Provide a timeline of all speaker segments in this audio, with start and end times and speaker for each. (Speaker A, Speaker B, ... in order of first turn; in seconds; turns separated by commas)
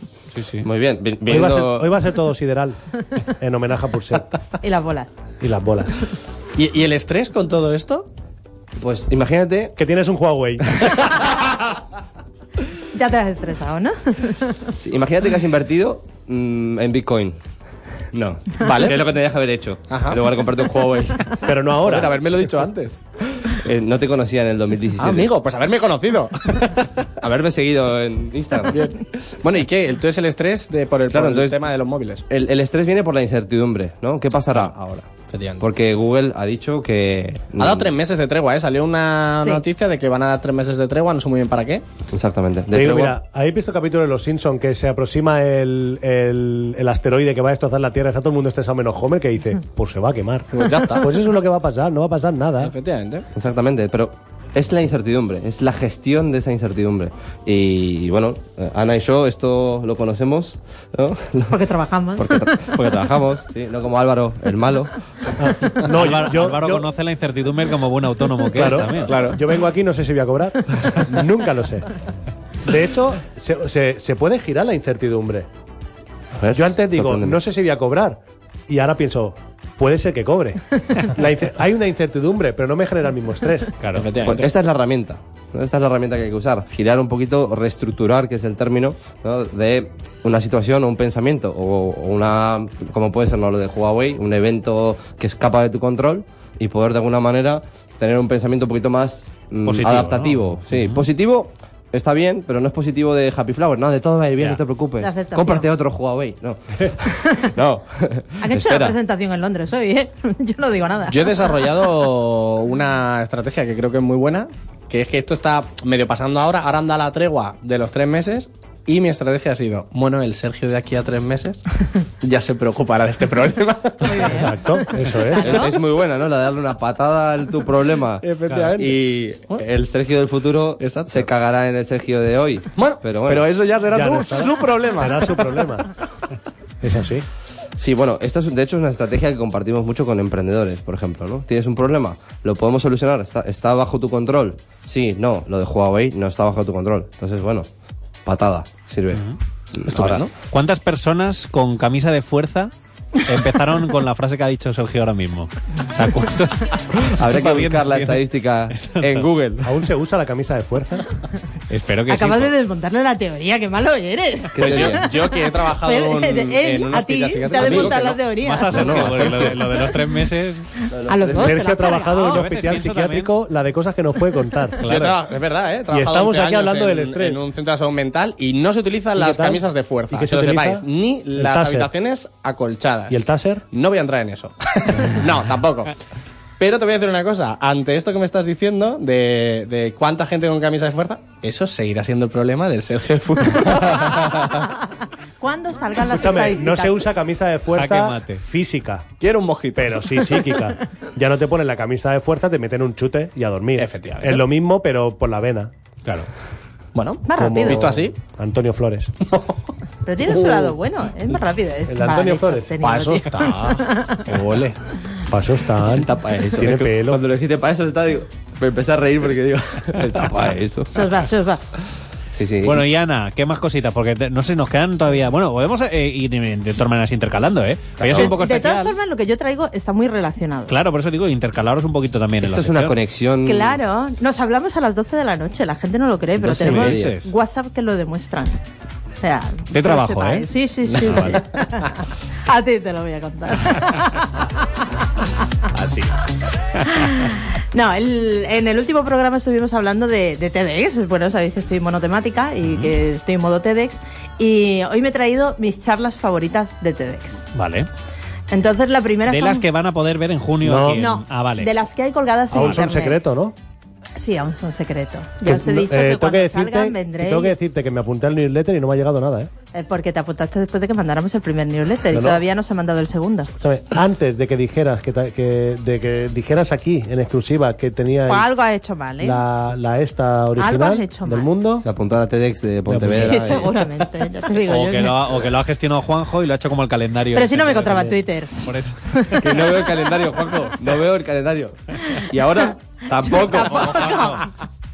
Speaker A: 0.3-0.7, Speaker B: 0.6-1.9, Speaker C: 1.2-4.3, Speaker D: 4.6-5.1, Speaker C: 5.4-6.0, Speaker E: 6.5-8.1, Speaker B: 8.8-9.7, Speaker C: 9.8-11.1, Speaker D: 12.9-14.6, Speaker B: 14.8-17.4, Speaker B: 18.1-21.2, Speaker E: 18.6-19.0, Speaker E: 19.9-23.0, Speaker C: 21.4-22.2, Speaker B: 23.5-25.3, Speaker E: 24.9-27.1, Speaker B: 27.2-28.8, Speaker E: 28.7-32.2, Speaker B: 31.1-31.6, Speaker B: 32.3-34.8, Speaker E: 34.5-35.6, Speaker B: 35.6-37.9, Speaker E: 37.6-41.8, Speaker B: 42.1-43.1, Speaker C: 42.7-52.7, Speaker E: 50.5-51.1, Speaker E: 52.6-53.2, Speaker B: 53.3-61.6, Speaker D: 61.5-62.5, Speaker B: 62.1-65.0, Speaker C: 65.3-66.9, Speaker A: 65.9-69.2, Speaker C: 68.5-71.9, Speaker E: 69.0-69.4, Speaker C: 72.6-75.5, Speaker B: 76.4-77.4, Speaker C: 76.5-83.7, Speaker A: 83.8-84.1, Speaker E: 83.9-84.5, Speaker B: 84.2-109.0, Speaker A: 99.6-101.0, Speaker D: 105.0-105.7, Speaker D: 107.1-107.5, Speaker D: 108.4-111.6, Speaker E: 111.1-124.4, Speaker D: 124.0-125.8, Speaker C: 124.2-125.6, Speaker B: 125.4-133.4, Speaker E: 128.2-129.6, Speaker E: 130.8-131.3, Speaker E: 132.8-135.7, Speaker C: 133.9-135.9, Speaker C: 136.8-137.3, Speaker B: 137.8-147.7, Speaker B: 148.2-150.2, Speaker E: 149.9-150.3, Speaker A: 150.5-152.7, Speaker A: 153.2-159.3, Speaker B: 157.2-159.7, Speaker C: 159.6-161.1, Speaker A: 161.7-162.5, Speaker D: 162.1-169.0, Speaker B: 164.5-165.0, Speaker E: 164.6-168.2, Speaker B: 167.5-167.9, Speaker A: 168.4-170.7, Speaker B: 168.7-169.6, Speaker D: 170.8-172.4, Speaker B: 170.9-171.6, Speaker C: 171.3-174.9, Speaker A: 172.2-173.3, Speaker A: 174.8-175.2, Speaker E: 174.8-185.9, Speaker C: 175.9-177.4, Speaker C: 179.2-181.9, Speaker C: 183.1-183.6, Speaker E: 186.6-194.7, Speaker D: 195.4-197.0, Speaker C: 196.1-199.1, Speaker A: 197.7-198.4, Speaker E: 199.2-200.3, Speaker C: 199.7-205.7, Speaker E: 203.8-204.4, Speaker E: 206.9-208.2, Speaker D: 207.2-207.8, Speaker C: 207.3-209.3, Speaker D: 210.0-214.2, Speaker C: 210.2-210.7, Speaker C: 211.9-212.7, Speaker E: 212.8-214.8, Speaker C: 215.3-217.2, Speaker B: 215.9-221.2, Speaker D: 220.9-221.6, Speaker B: 222.3-222.8, Speaker A: 222.6-229.0, Speaker B: 228.0-228.3, Speaker D: 228.1-230.8, Speaker A: 230.7-233.0, Speaker B: 232.4-233.8, Speaker D: 233.4-238.6, Speaker B: 236.4-237.1, Speaker A: 236.6-237.3, Speaker D: 239.2-244.6, Speaker A: 239.7-241.4, Speaker E: 240.9-241.4, Speaker A: 245.7-246.1, Speaker D: 246.8-257.4, Speaker A: 252.6-252.9, Speaker A: 257.5-257.9, Speaker D: 258.5-259.7, Speaker A: 259.3-261.7, Speaker C: 260.6-261.0, Speaker D: 260.9-263.2, Speaker C: 262.5-263.5, Speaker D: 264.2-267.5, Speaker C: 265.4-269.5, Speaker D: 269.7-273.5, Speaker C: 272.1-272.4, Speaker C: 273.6-278.5, Speaker D: 278.3-279.4, Speaker C: 279.2-281.9, Speaker D: 280.6-281.5, Speaker B: 281.8-283.7, Speaker C: 282.9-283.3, Speaker D: 283.1-285.2, Speaker A: 284.6-288.1, Speaker D: 287.3-289.5, Speaker C: 287.9-288.1, Speaker A: 288.6-289.4, Speaker B: 289.4-294.1, Speaker D: 293.2-294.5, Speaker A: 293.3-294.5